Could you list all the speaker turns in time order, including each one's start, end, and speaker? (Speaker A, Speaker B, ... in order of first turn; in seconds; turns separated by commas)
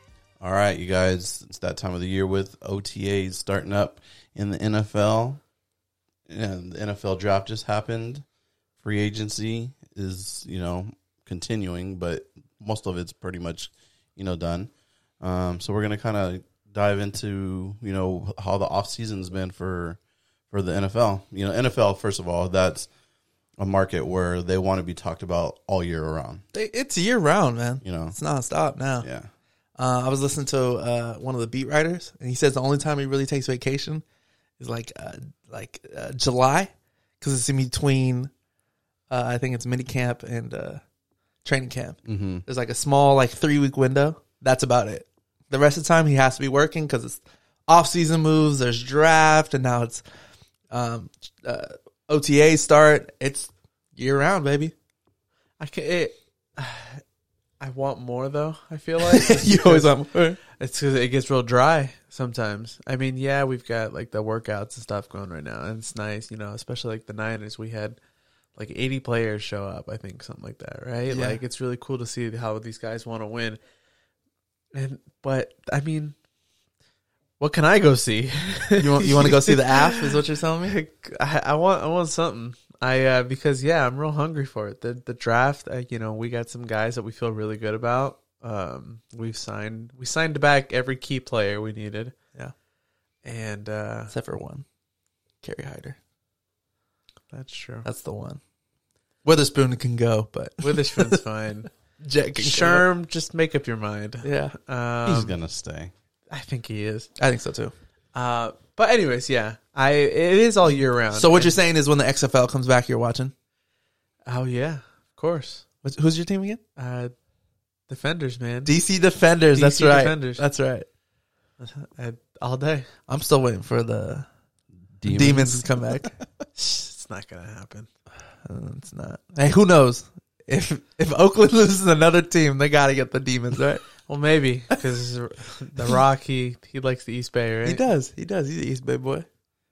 Speaker A: 0.4-5.4, Speaker A: 6.3-8.2, Speaker A: 8.8-20.0, Speaker A: 20.5-22.9, Speaker A: 23.6-26.4, Speaker B: 26.5-29.1, Speaker A: 27.8-28.2, Speaker A: 29.0-29.3, Speaker B: 29.8-34.0, Speaker B: 34.6-38.3, Speaker B: 39.1-40.8, Speaker B: 41.4-50.0, Speaker A: 42.1-42.4, Speaker B: 50.7-54.7, Speaker C: 55.6-57.0, Speaker C: 57.6-68.0, Speaker B: 59.0-60.4, Speaker C: 68.6-73.6, Speaker B: 71.1-71.4, Speaker C: 74.7-76.2, Speaker C: 77.4-92.2, Speaker B: 78.8-80.8, Speaker C: 93.2-94.1, Speaker B: 94.1-94.7, Speaker B: 95.4-96.0, Speaker C: 97.3-97.8, Speaker B: 97.8-98.4, Speaker B: 99.2-101.2, Speaker C: 100.6-101.7, Speaker B: 102.0-102.8, Speaker C: 102.4-105.4, Speaker B: 104.2-104.5, Speaker A: 105.0-105.9, Speaker C: 106.3-107.1, Speaker B: 107.2-107.7, Speaker C: 108.1-111.6, Speaker B: 111.1-113.3, Speaker C: 114.3-115.6, Speaker B: 115.8-116.6, Speaker C: 116.8-117.1, Speaker C: 117.9-118.8, Speaker B: 118.7-120.9, Speaker C: 119.5-120.5, Speaker C: 121.6-122.9, Speaker B: 123.1-124.3, Speaker A: 125.0-125.7, Speaker B: 125.1-126.1, Speaker C: 126.6-127.9, Speaker B: 128.5-133.8, Speaker C: 134.1-137.8, Speaker B: 137.6-139.3